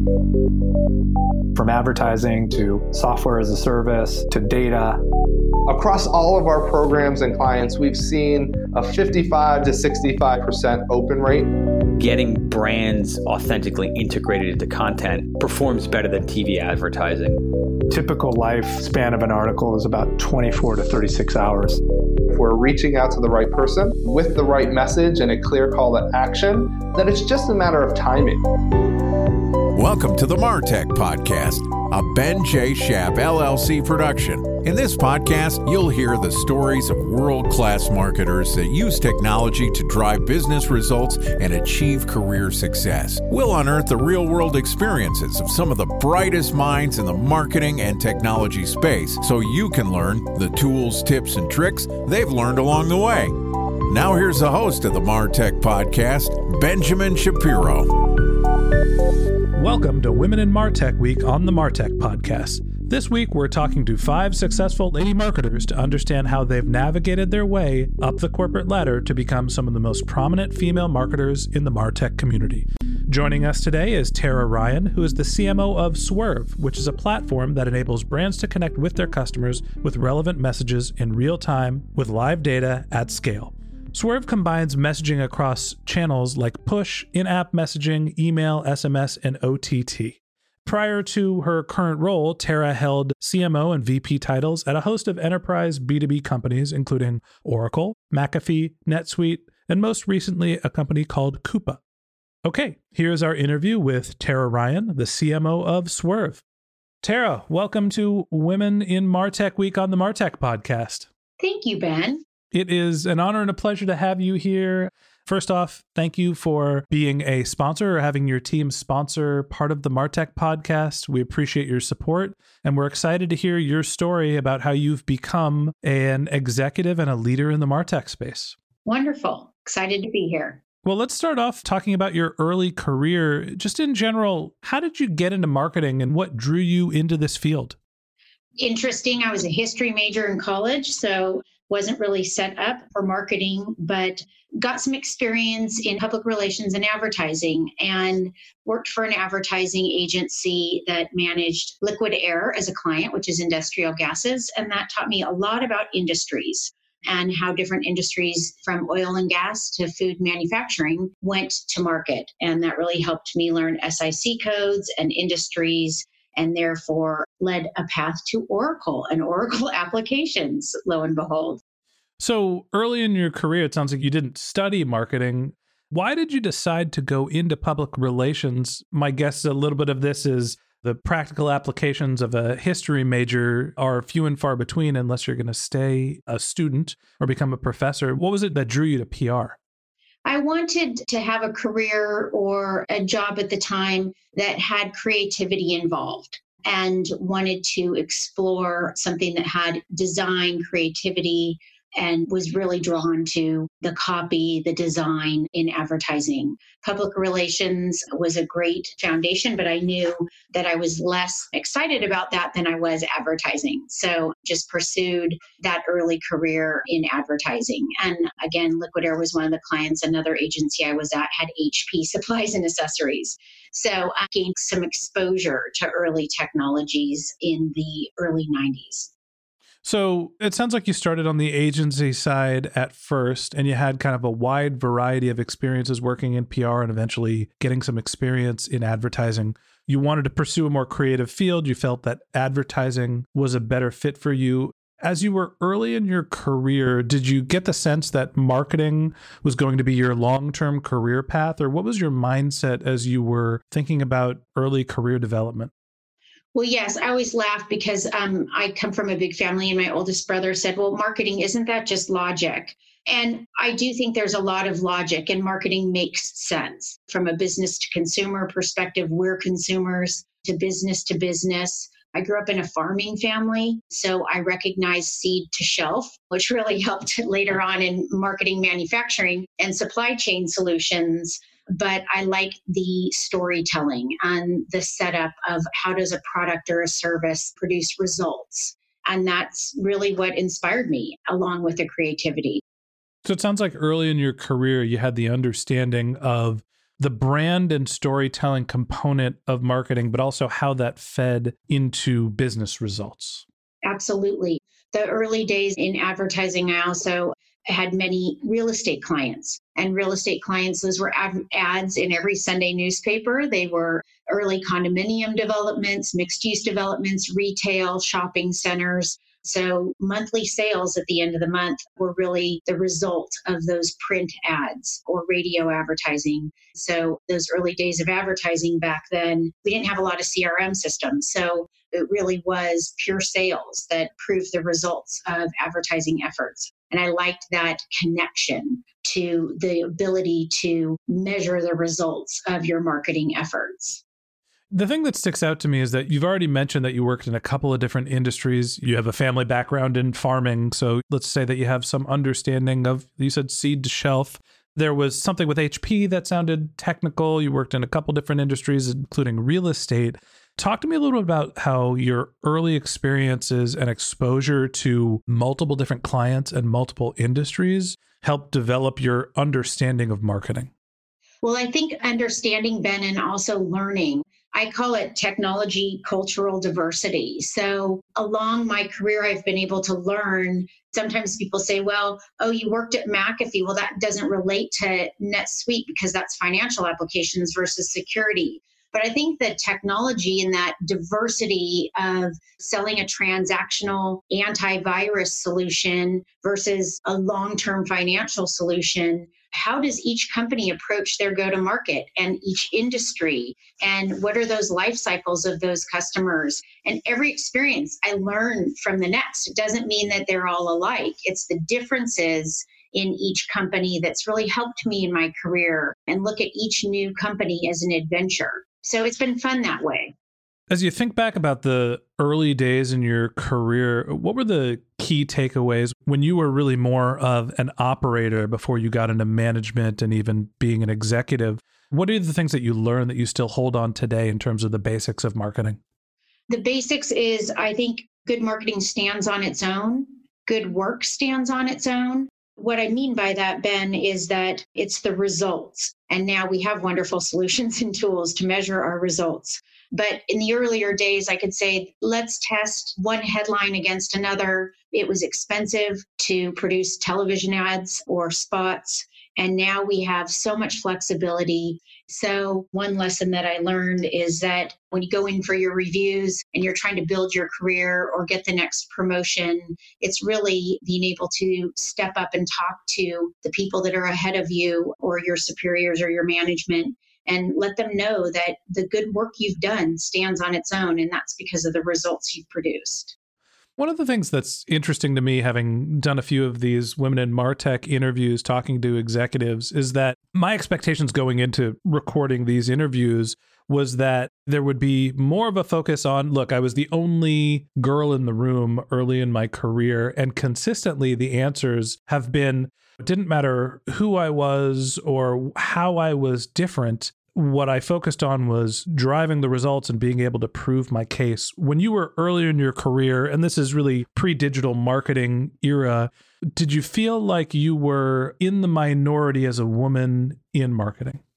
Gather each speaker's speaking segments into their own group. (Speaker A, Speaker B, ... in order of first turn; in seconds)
Speaker A: 1.5-5.0, 17.9-21.8
Speaker B: 5.7-11.5, 22.3-28.4
Speaker C: 12.0-17.4
Speaker D: 29.7-58.0
Speaker E: 59.5-101.8, 102.4-106.4, 107.0-111.1, 112.5-128.6, 130.8-137.8, 172.2-189.6, 229.8-255.7, 293.2-303.4, 344.7-370.7, 420.7-435.8, 483.8-521.2
Speaker F: 111.4-112.2, 128.8-130.6, 138.6-171.6, 190.2-229.1, 256.5-292.6, 303.8-344.0, 371.4-420.1, 436.5-483.1